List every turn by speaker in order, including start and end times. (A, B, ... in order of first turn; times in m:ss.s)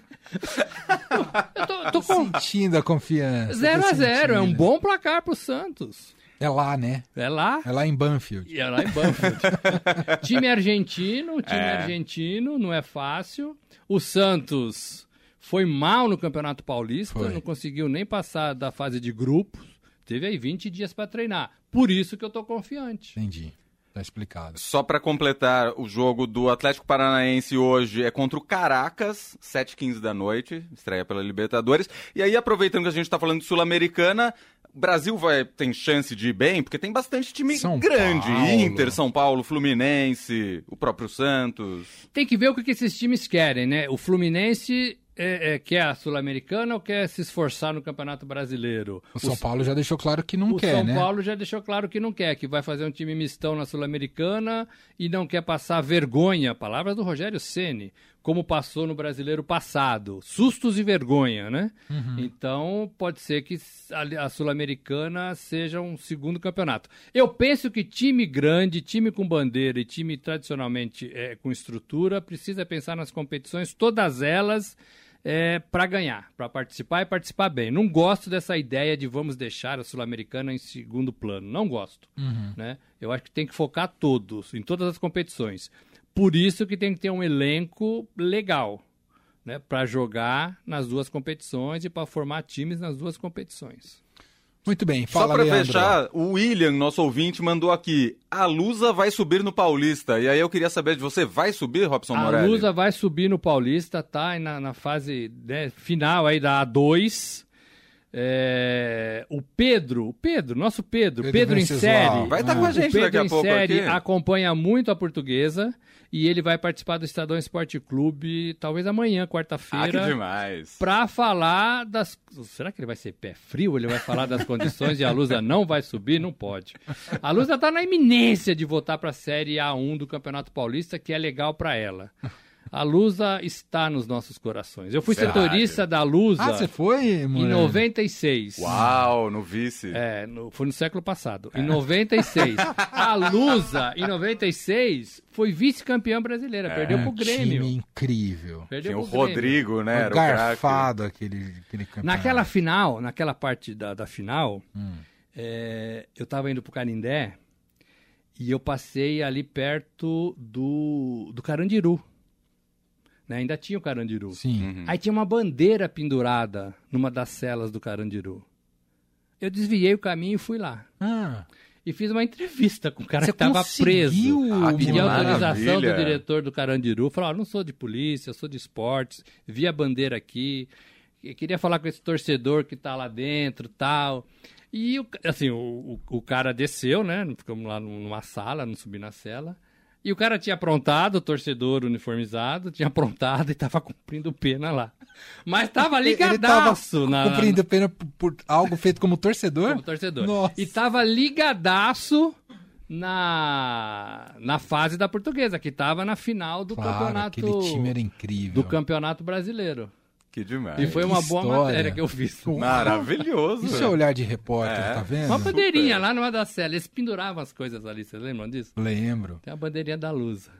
0:00.4-0:02.3 A
0:01.9-0:04.7 B
0:03.5-0:06.1 A
0:06.4-0:07.1 B
0:07.2-0:07.7 A
0:07.6-0:09.8 B
0:08.5-0:23.2 A
0:11.4-0:11.9 C
0:17.1-0:17.4 B
0:23.2-0:24.6 B
0:24.6-0:42.0 C
0:37.5-0:39.0 B
0:42.1-0:49.5 A
0:49.2-0:51.1 B
0:50.5-1:28.8 A
1:01.9-1:02.3 B
1:22.2-1:22.6 B
1:29.4-1:34.0 A
1:34.6-1:36.0 B
1:35.1-1:42.7 C
1:42.1-1:47.4 A
1:48.1-2:00.2 A
1:51.2-1:52.8 B
1:52.2-1:54.0 C
1:59.7-2:00.8 C
2:00.8-2:12.1 A
2:12.7-2:16.7 A
2:15.1-2:15.8 C
2:16.4-2:17.8 B
2:17.3-2:18.8 A
2:18.6-2:20.0 C
2:18.7-2:19.0 B
2:19.9-2:27.7 A
2:26.7-2:27.0 C
2:26.9-2:28.7 B
2:28.7-2:29.7 A
2:28.8-2:30.9 C
2:29.9-2:32.5 B
2:32.0-2:34.6 A
2:34.7-2:35.0 B
2:35.3-2:37.4 A
2:38.4-2:42.0 A
2:43.3-2:48.4 A
2:44.3-2:44.7 B
2:44.6-2:44.9 C
2:49.4-2:50.9 A
2:51.0-2:51.5 B
2:51.8-3:00.7 A
2:53.2-2:55.6 B
2:54.5-2:56.2 C
3:01.2-3:14.9 A
3:15.4-3:17.6 A
3:16.0-3:20.7 B
3:19.6-3:22.4 A
3:22.9-3:27.9 A
3:26.7-3:28.8 B
3:28.5-3:29.9 A
3:30.3-3:31.0 C
3:30.8-3:33.0 A
3:30.8-3:35.6 B
3:32.6-3:34.0 C
3:34.6-3:36.0 C
3:35.2-3:38.7 A
3:38.8-3:39.4 B
3:39.4-3:40.5 A